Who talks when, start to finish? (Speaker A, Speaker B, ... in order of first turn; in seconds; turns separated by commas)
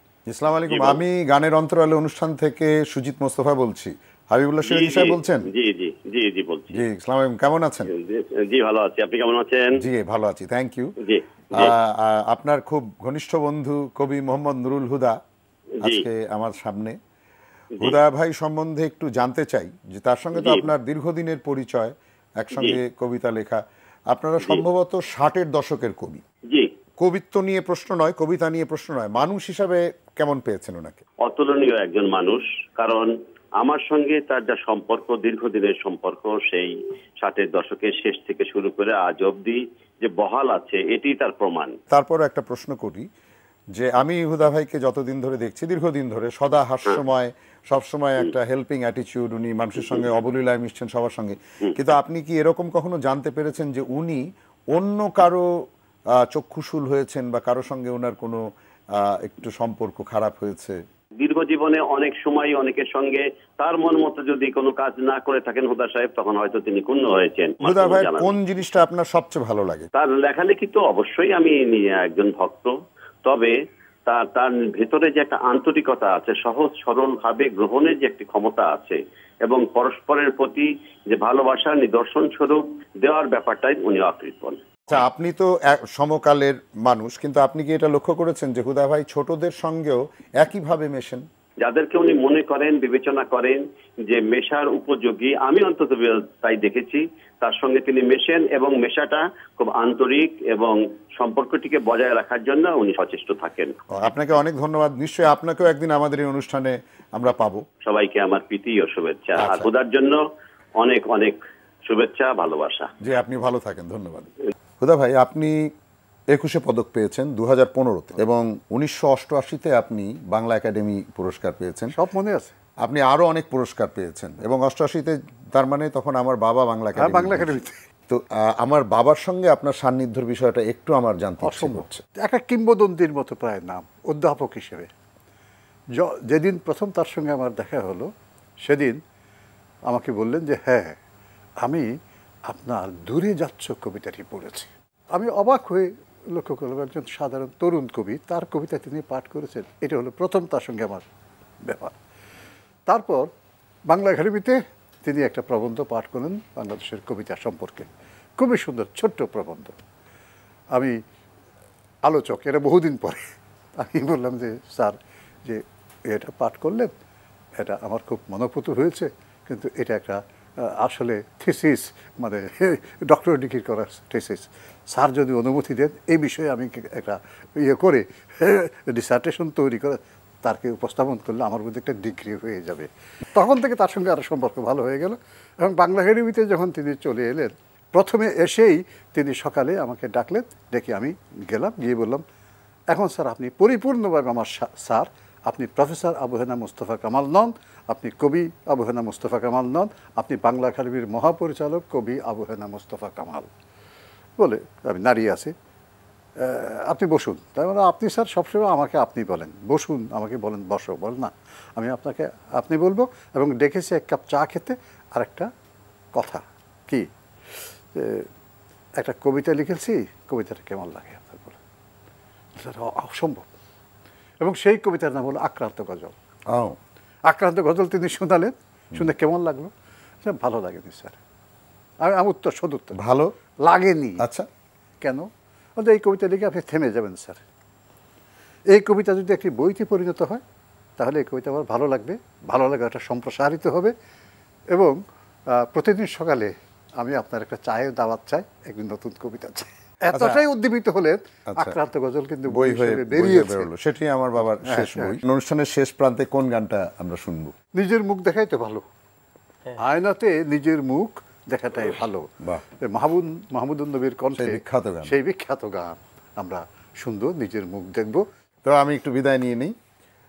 Speaker A: 0.3-5.5, Speaker B: 0.7-1.0, Speaker B: 4.6-6.8, Speaker A: 6.7-7.9, Speaker B: 7.9-9.8, Speaker A: 9.7-10.9, Speaker B: 11.0-11.8, Speaker A: 11.5-15.2, Speaker B: 15.8-16.1, Speaker A: 15.8-17.0, Speaker A: 17.8-26.2, Speaker B: 20.4-20.6, Speaker A: 27.0-31.0, Speaker B: 31.2-41.8, Speaker A: 41.9-43.1, Speaker A: 43.7-55.5, Speaker A: 56.1-60.8, Speaker B: 61.2-68.3, Speaker A: 67.6-69.9, Speaker B: 69.9-84.6, Speaker A: 84.9-91.2, Speaker B: 91.6-103.7, Speaker A: 103.9-107.7, Speaker B: 107.8-110.2, Speaker A: 109.4-109.7, Speaker B: 110.8-112.9, Speaker A: 113.0-115.6, Speaker A: 116.3-121.9, Speaker C: 121.9-122.5, Speaker A: 122.8-132.0, Speaker C: 127.0-127.8, Speaker C: 131.4-134.9, Speaker C: 135.9-138.1, Speaker C: 138.6-139.0, Speaker C: 139.9-141.0, Speaker C: 141.6-141.9, Speaker C: 142.5-151.1, Speaker C: 151.6-151.9, Speaker C: 152.9-153.3, Speaker C: 153.9-159.8, Speaker C: 160.7-161.0, Speaker C: 162.0-166.9, Speaker C: 167.6-192.2, Speaker C: 192.9-203.5, Speaker C: 204.4-205.5, Speaker C: 206.4-215.5, Speaker C: 216.1-217.1, Speaker C: 217.9-218.3, Speaker C: 219.0-221.6, Speaker C: 222.6-223.5, Speaker C: 224.4-226.1, Speaker A: 226.5-226.8, Speaker C: 227.2-231.2, Speaker C: 232.0-233.0, Speaker A: 232.9-233.3, Speaker C: 233.6-234.2, Speaker A: 234.2-234.5, Speaker C: 235.0-237.4, Speaker C: 238.7-240.4, Speaker C: 241.0-243.9, Speaker C: 244.7-253.7, Speaker A: 250.1-250.4, Speaker A: 251.5-251.8, Speaker A: 252.5-257.5, Speaker C: 254.5-255.2, Speaker C: 257.7-258.8, Speaker C: 259.8-262.3, Speaker C: 262.8-268.2, Speaker A: 264.3-265.2, Speaker A: 268.6-269.7